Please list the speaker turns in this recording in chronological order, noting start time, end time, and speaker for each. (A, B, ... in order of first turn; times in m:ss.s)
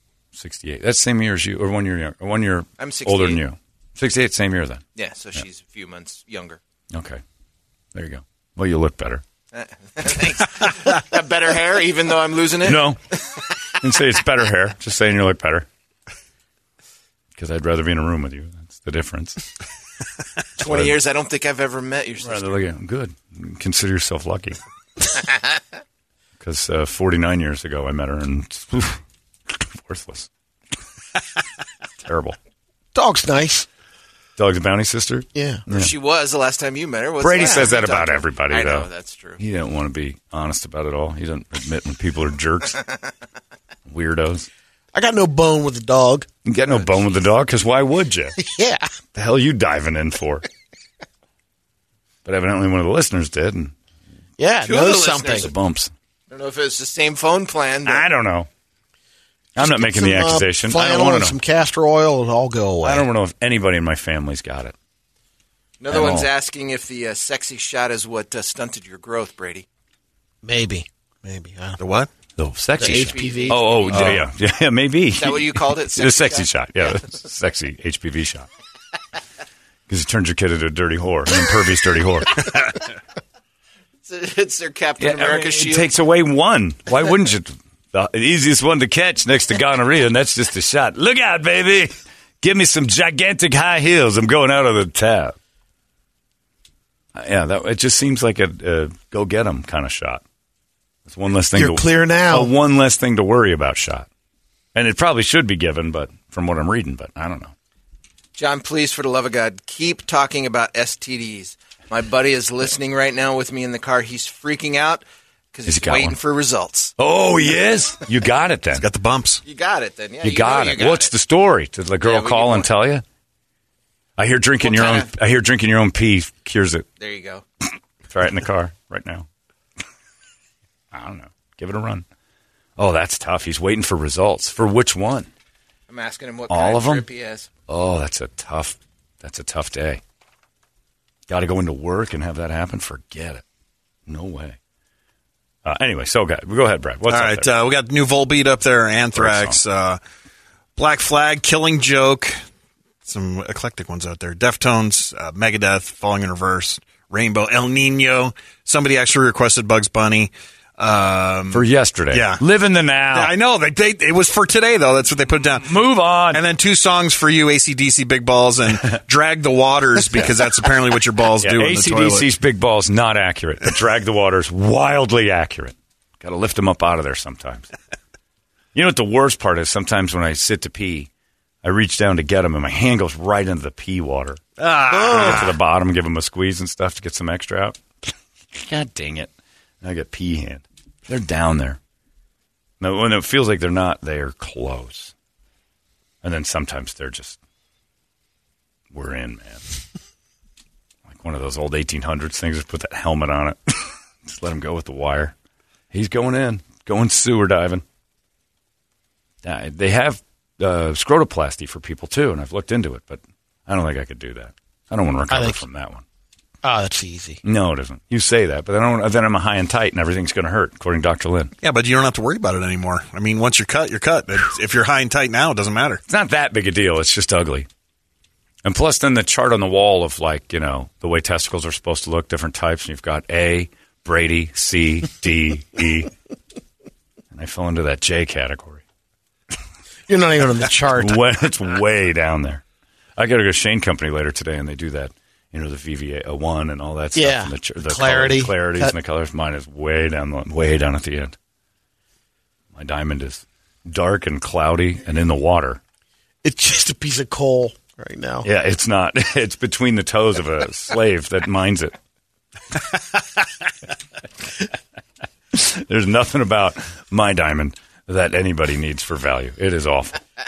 0:00.3-0:04.8 A
0:02.8-0:03.4 B
0:05.0-0:06.6 B
0:06.9-0:07.2 A
0:07.9-0:09.2 A
0:09.5-0:13.4 B
0:12.6-0:13.0 A
0:13.8-0:15.7 A
0:17.4-0:19.5 A
0:20.6-0:22.6 B
0:20.6-0:21.0 A
0:22.2-0:24.6 A
0:26.4-0:30.3 A
0:32.0-0:32.4 A
0:32.9-0:33.7 C
0:34.4-0:35.9 A
0:35.3-0:35.6 C
0:35.7-0:39.4 B
0:37.2-0:42.8 A
0:43.9-0:44.5 A
0:44.9-0:46.3 C
0:46.4-0:48.3 A
0:46.7-0:47.0 B
0:48.4-0:48.9 C
0:49.1-0:50.4 A
0:52.2-0:53.7 A
0:54.4-0:55.5 C
0:54.6-0:55.5 B
0:55.4-0:55.9 A
0:56.3-0:58.1 B
0:57.8-0:58.5 A
0:59.6-1:01.4 A
0:59.6-1:03.1 C
1:02.8-1:04.7 A
1:05.8-1:09.6 B
1:05.9-1:06.3 A
1:10.4-1:11.8 C
1:11.8-1:12.1 D
1:12.4-1:18.5 A
1:12.8-1:13.8 C
1:12.8-1:14.2 B
1:13.9-1:14.2 D
1:15.2-1:16.5 B
1:19.9-1:22.5 A
1:24.0-1:25.9 B
1:25.0-1:35.4 A
1:37.1-1:40.2 A
1:41.1-1:44.1 A
1:41.5-1:42.5 C
1:44.7-1:47.5 A
1:48.4-1:56.9 B
1:55.6-1:56.2 A
1:57.0-1:58.8 A
1:58.7-1:59.4 D
1:59.4-2:01.1 B
2:00.2-2:03.0 A
2:02.0-2:02.7 B
2:04.2-2:06.8 A
2:04.6-2:05.1 B
2:07.0-2:07.4 B
2:08.1-2:09.3 A
2:10.9-2:12.0 A
2:12.8-2:15.3 A
2:15.9-2:17.5 B
2:16.5-2:17.0 A
2:17.7-2:20.0 A
2:21.3-2:23.4 A
2:24.1-2:24.6 A
2:25.6-2:27.5 A
2:27.1-2:30.0 D
2:29.1-2:29.6 A
2:30.8-2:32.4 D
2:33.0-2:42.4 D
2:41.5-2:43.3 A
2:43.1-2:45.7 D
2:45.5-2:46.4 A
2:46.3-2:52.2 D
2:51.4-2:57.7 A
2:58.7-3:01.1 A
3:01.6-3:04.4 A
3:04.6-3:05.5 D
3:04.9-3:05.5 C
3:05.0-3:07.8 A
3:08.5-3:09.3 A
3:09.8-3:11.8 A
3:12.8-3:15.1 A
3:16.2-3:17.4 A
3:18.9-3:19.6 A
3:21.0-3:25.3 A
3:25.9-3:27.8 A
3:29.4-3:36.0 A
3:35.3-3:35.6 C
3:36.6-3:37.4 C
3:37.4-3:41.5 A
3:41.6-3:46.0 D
3:46.1-3:47.7 A
3:48.6-3:56.1 A
3:57.3-3:58.8 A
4:00.1-4:01.2 C
4:01.0-4:02.6 A
4:03.2-4:11.4 A
4:07.1-4:08.9 C
4:12.7-4:15.8 A
4:16.4-4:18.5 C
4:18.4-4:21.9 A
4:25.5-4:30.2 A